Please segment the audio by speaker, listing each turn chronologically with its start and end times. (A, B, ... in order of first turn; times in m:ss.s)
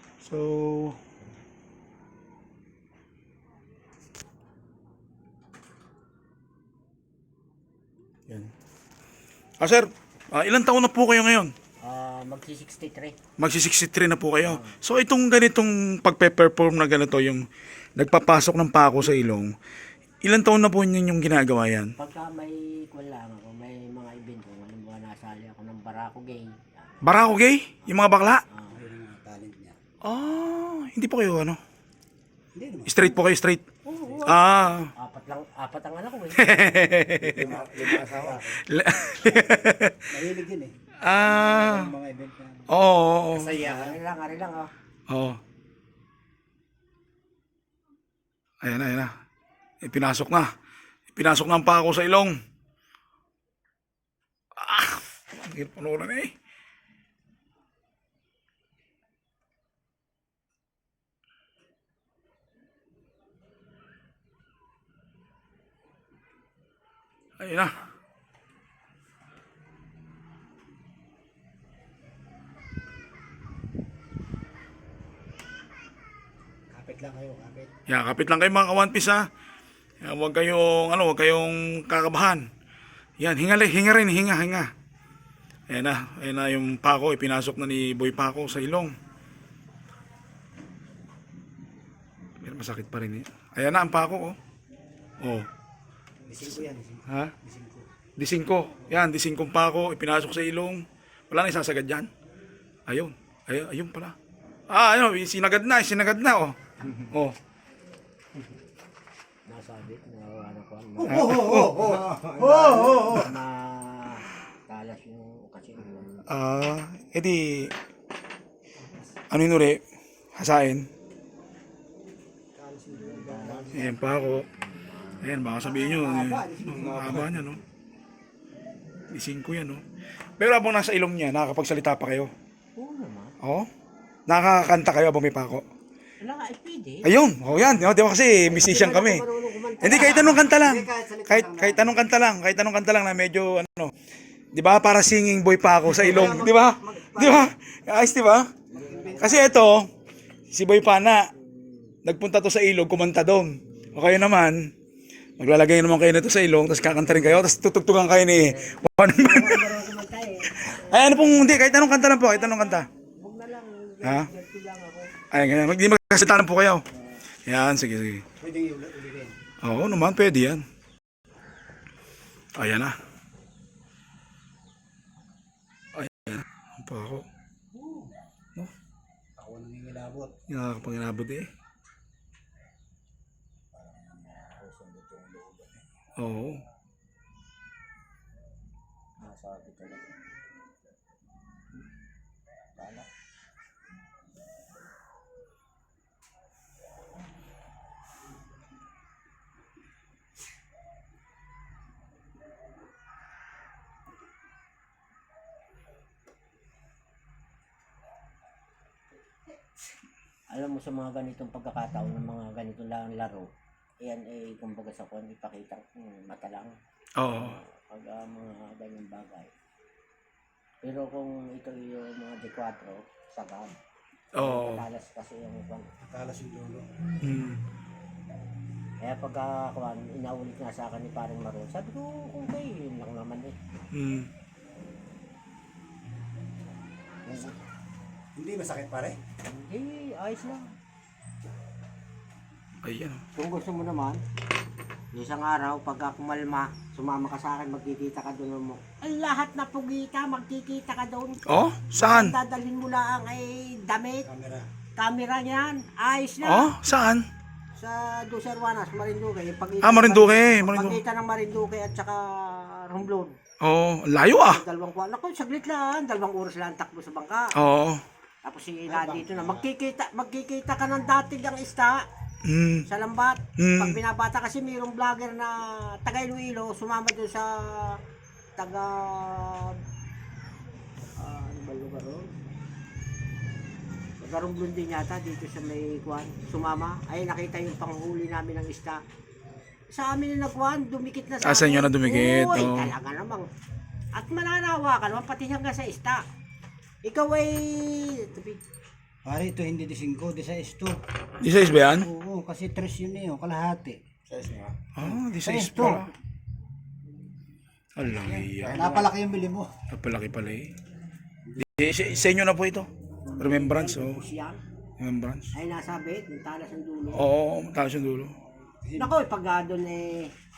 0:00.2-0:01.0 A
0:09.6-0:11.5 A
0:11.8-0:13.2 B
0:13.4-0:17.4 A
0:14.4-0:14.8 B
0:18.0-0:19.5 A
0:20.2-0:21.9 A
0:22.0-0:27.1 B
0:27.0-0:28.4 A
0:28.5-0:28.8 B
0:28.7-0:29.8 C
0:30.0-0:31.6 A
0:32.5-0:33.0 C
0:32.9-0:33.7 A
0:33.8-0:34.4 B
0:34.2-0:34.9 A
0:35.0-0:36.7 B
0:36.4-0:40.1 A
0:37.2-0:38.7 C
0:39.2-0:42.7 C
0:41.0-0:41.9 A
0:42.7-0:43.6 A
0:43.3-0:44.0 C
0:43.6-0:44.7 B
0:45.1-0:45.4 A
0:48.6-0:49.1 A
0:49.8-0:50.5 A
0:51.1-0:52.4 A
0:54.6-0:56.3 A
1:07.4-1:07.7 A
1:16.7-1:17.7 C
1:17.9-1:19.2 A
1:20.0-1:22.4 A
1:23.2-1:24.7 A
1:25.7-1:29.0 A
1:32.4-1:34.4 A
1:35.2-1:35.5 A
1:36.3-1:37.9 C
1:37.1-1:37.3 A
1:38.2-1:42.1 A
1:42.9-1:44.2 A
1:44.7-1:47.4 A
1:49.5-1:51.4 B
1:51.0-1:53.3 C
1:51.1-1:52.0 A
1:52.0-1:56.2 B
1:56.3-1:57.7 A
1:58.8-1:59.2 C
1:59.3-1:59.8 A
2:00.4-2:00.9 A
2:02.6-2:04.0 C
2:03.0-2:05.5 B
2:03.7-2:04.5 A
2:05.2-2:07.6 A
2:05.6-2:07.6 C
2:09.1-2:09.8 A
2:10.4-2:12.3 A
2:12.8-2:13.4 B
2:13.4-2:13.7 A
2:14.3-2:15.6 A
2:16.2-2:17.1 B
2:17.0-2:19.2 A
2:18.4-2:20.5 B
2:19.8-2:23.9 A
2:20.0-2:22.0 C
2:24.5-2:28.6 A
2:25.8-2:27.5 C
2:28.7-2:29.6 B
2:28.7-2:29.6 C
2:29.2-2:29.9 A
2:30.5-2:31.3 A
2:31.4-2:32.0 B
2:32.0-2:34.7 A
2:35.4-2:39.8 A
2:38.4-2:45.2 B
2:40.5-2:42.9 A
2:44.0-2:44.3 A
2:45.3-2:46.8 A
2:47.0-2:47.2 B
2:47.5-2:48.2 A
2:48.4-2:49.4 C
2:49.6-2:50.6 A
2:52.6-2:53.0 A
2:56.0-2:57.2 A
2:57.7-2:58.1 C
2:59.4-3:00.3 C
3:00.5-3:01.5 A
3:03.7-3:05.7 C
3:06.2-3:06.6 A
3:09.2-3:10.1 B
3:12.8-3:13.1 B
3:30.5-3:33.5 B
3:34.0-3:36.7 B
3:37.2-3:37.6 A
3:37.3-3:39.5 B
3:40.8-3:43.7 B
3:44.4-3:44.8 A
3:44.4-3:45.9 B
3:46.0-3:46.9 C
3:47.2-3:47.6 A
3:49.0-3:53.6 B
3:53.9-3:54.3 A
3:57.3-3:57.6 B
3:58.4-3:59.2 C
3:59.4-4:00.7 B
4:02.8-4:03.2 A
4:03.4-4:04.2 B
4:05.1-4:11.4 B
4:11.5-4:12.4 A
4:11.9-4:14.3 B
4:14.3-4:14.7 C
4:15.0-4:16.7 B
4:16.4-4:17.2 A
4:17.8-4:23.3 B
4:19.8-4:21.0 A
4:23.6-4:24.6 A
4:24.4-4:27.5 B
4:27.6-4:28.0 A
4:28.4-4:32.0 B
4:28.9-4:29.7 C
4:32.4-4:32.8 A
4:32.9-4:38.0 B
4:33.6-4:34.0 A
4:38.6-4:39.8 B
4:41.2-4:42.3 B
4:44.2-4:49.0 B
4:49.9-4:53.5 B
4:51.4-4:52.9 A
4:54.2-4:56.2 B
4:57.0-4:58.6 B
4:59.2-5:01.0 C
5:01.4-5:02.1 A
5:02.0-5:06.1 C
5:05.0-5:06.1 A
5:08.0-5:09.1 A
5:08.3-5:09.7 C
5:09.9-5:10.7 A
5:11.6-5:14.2 A
5:13.3-5:14.6 B
5:15.0-5:15.5 A
5:15.5-5:17.3 B
5:17.1-5:18.3 A
5:18.8-5:19.1 C
5:19.0-5:20.3 B